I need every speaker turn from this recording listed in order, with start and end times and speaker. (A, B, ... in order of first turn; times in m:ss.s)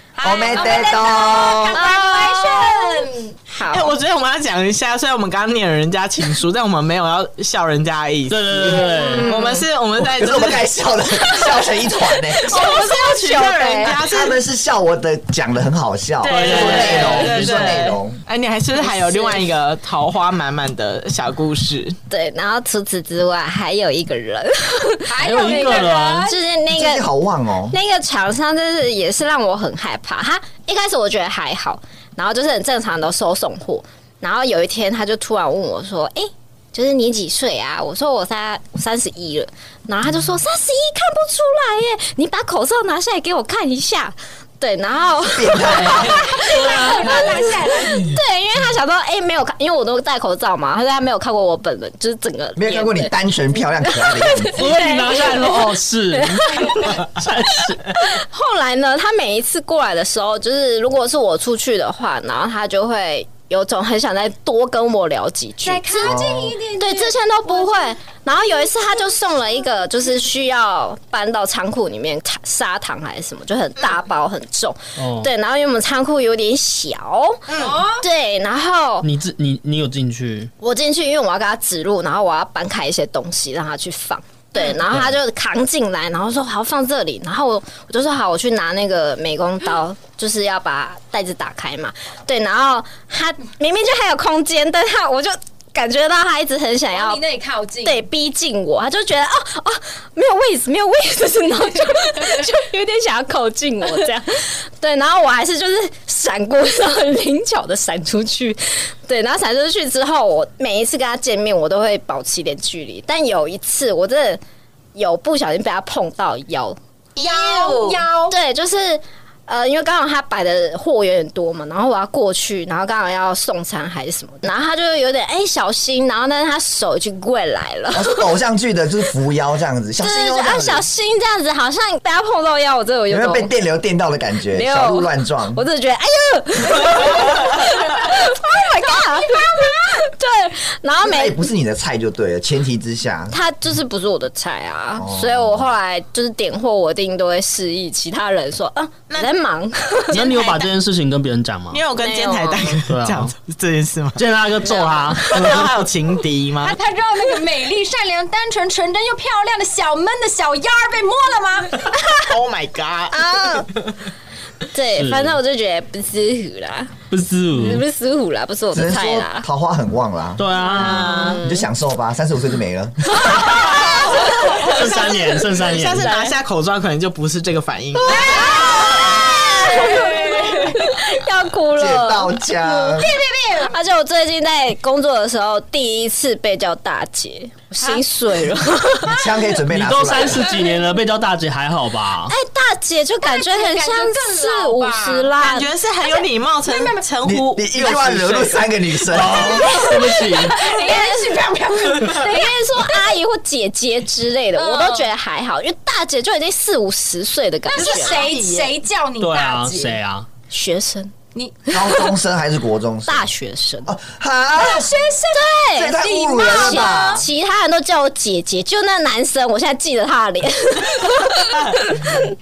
0:00.2-0:03.4 A
0:00.2-0:01.8 B
0:00.5-0:01.0 C
0:01.7-0:04.0 C
0:03.7-0:08.5 D
0:08.3-0:09.4 E
0:08.6-0:09.6 C
0:09.2-0:10.7 D
0:10.0-0:12.6 B
0:11.2-0:14.0 C
0:12.4-0:14.4 D
0:13.9-0:18.2 B
0:16.2-0:22.0 D
0:16.3-0:17.9 E
0:16.6-0:17.1 C
0:18.8-0:19.5 C
0:22.1-0:27.1 C
0:25.1-0:26.4 A
0:25.2-0:26.3 E
0:26.7-0:27.8 B
0:27.7-0:53.2 C
0:45.4-0:46.3 B
0:45.9-0:48.2 A
0:46.6-0:47.4 E
0:52.6-0:54.6 B
0:53.8-0:57.0 C
0:54.6-0:57.8 E
0:58.0-1:19.1 C
1:05.6-1:07.9 A
1:06.0-1:06.6 B
1:15.0-1:15.3 E
1:17.5-1:17.8 D
1:17.6-1:18.0 A
1:19.0-1:20.5 E
1:20.6-1:37.2 C
1:36.9-1:38.0 A
1:37.8-1:54.4 C
1:55.0-1:56.8 C
1:57.2-1:58.0 D
1:57.2-1:58.4 A
1:58.3-2:08.3 C
2:07.9-2:10.9 B
2:10.0-2:13.5 C
2:13.1-2:15.6 B
2:14.5-2:21.5 C
2:21.0-2:23.4 B
2:23.3-2:30.3 C
2:25.0-2:25.7 B
2:30.1-2:30.7 D
2:30.1-2:31.8 E
2:31.7-2:34.2 D
2:32.0-2:32.8 C
2:32.9-2:33.3 E
2:34.2-2:35.7 E
2:34.6-2:35.5 C
2:35.3-2:36.8 D
2:36.6-2:41.9 A
2:42.3-2:43.9 D
2:43.1-2:43.7 C
2:44.7-2:47.0 C
2:44.9-2:45.4 E
2:47.1-2:47.8 E
2:47.5-2:49.5 C
2:48.7-2:50.4 B
2:50.4-2:51.4 E
2:50.6-2:51.7 C
2:50.7-2:51.4 D
2:51.4-2:53.6 B
2:53.3-2:55.2 C
2:54.0-2:54.6 A
2:54.2-2:58.3 D
2:54.6-2:56.1 E
2:55.9-2:56.4 C
2:58.0-3:03.0 C
2:58.1-3:00.9 A
3:01.8-3:03.1 B
3:03.0-3:03.8 A
3:03.7-3:09.2 C
3:09.1-3:10.5 B
3:09.7-3:12.3 E
3:10.3-3:10.9 A
3:12.2-3:15.7 C
3:13.2-3:15.3 A
3:15.4-3:18.9 D
3:16.0-3:17.1 A
3:17.2-3:19.6 B
3:19.1-3:20.6 E
3:19.4-3:23.1 A
3:19.4-3:21.4 C
3:22.0-3:28.3 C
3:24.6-3:25.1 A
3:27.7-3:30.0 A
3:27.8-3:28.8 D
3:29.2-3:30.3 E
3:30.5-3:31.1 C
3:31.3-3:31.7 A
3:31.7-3:32.1 C
3:31.7-3:33.3 B
3:33.1-3:33.9 C
3:33.8-3:34.9 B
3:34.6-3:37.3 A
3:35.3-3:42.2 C
3:35.8-3:37.3 B